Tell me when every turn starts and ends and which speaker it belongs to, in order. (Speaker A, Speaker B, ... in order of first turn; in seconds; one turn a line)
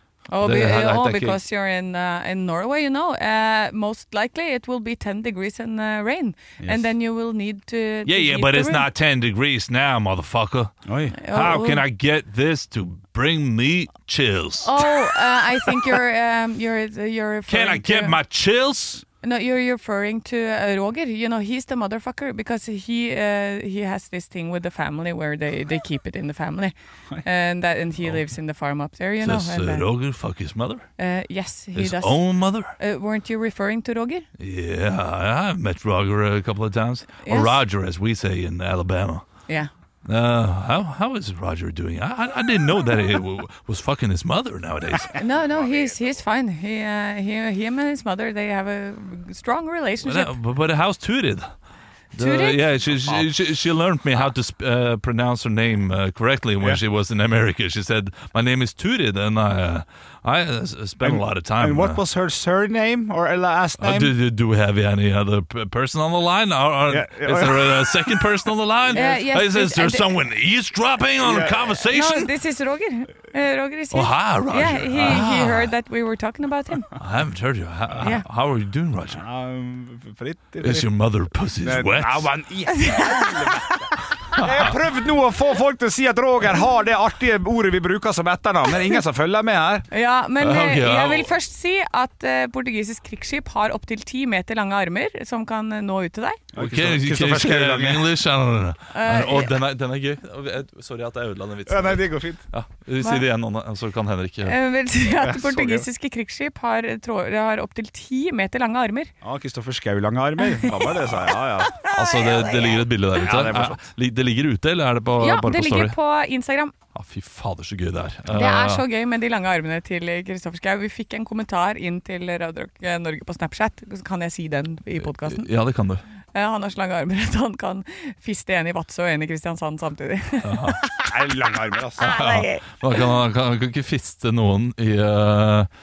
Speaker A: 0.3-8.9
Speaker B: 0.4-1.4
Speaker C: 6.6-6.9
Speaker B: 8.1-10.7
Speaker C: 10.9-11.2
Speaker A: 11.1-11.8
Speaker B: 11.3-15.8
Speaker A: 14.6-18.2
Speaker B: 17.5-19.0
Speaker A: 19.2-29.9
Speaker B: 29.2-30.9
Speaker A: 31.0-34.3
Speaker B: 31.8-32.7
Speaker B: 34.4-39.2
Speaker A: 37.2-37.6
Speaker B: 40.0-45.2
Speaker A: 45.2-50.3
Speaker B: 50.0-51.5
Speaker B: 52.1-62.0
Speaker A: 52.2-52.6
Speaker C: 61.0-64.1
Speaker B: 63.8-72.3
Speaker C: 66.9-68.2
Speaker A: 68.9-70.1
Speaker A: 71.8-77.0
Speaker B: 73.9-75.7
Speaker B: 77.0-79.2
Speaker C: 79.1-80.9
Speaker B: 80.6-82.3
Speaker C: 81.6-89.9
Speaker A: 82.7-83.9
Speaker A: 89.9-96.4
Speaker B: 90.4-91.3
Speaker C: 96.5-98.1
Speaker B: 96.6-104.6
Speaker A: 98.9-99.6
Speaker C: 101.7-102.4
Speaker A: 104.5-109.1
Speaker C: 105.1-105.9
Speaker C: 109.2-111.7
Speaker A: 110.5-111.1
Speaker A: 111.7-112.9
Speaker B: 111.9-116.0
Speaker C: 113.2-113.8
Speaker A: 115.2-116.7
Speaker B: 117.0-118.8
Speaker A: 118.3-125.5
Speaker B: 125.0-126.0
Speaker A: 126.3-131.2
Speaker B: 130.4-130.8
Speaker C: 131.0-132.2
Speaker A: 132.0-133.1
Speaker B: 132.0-135.7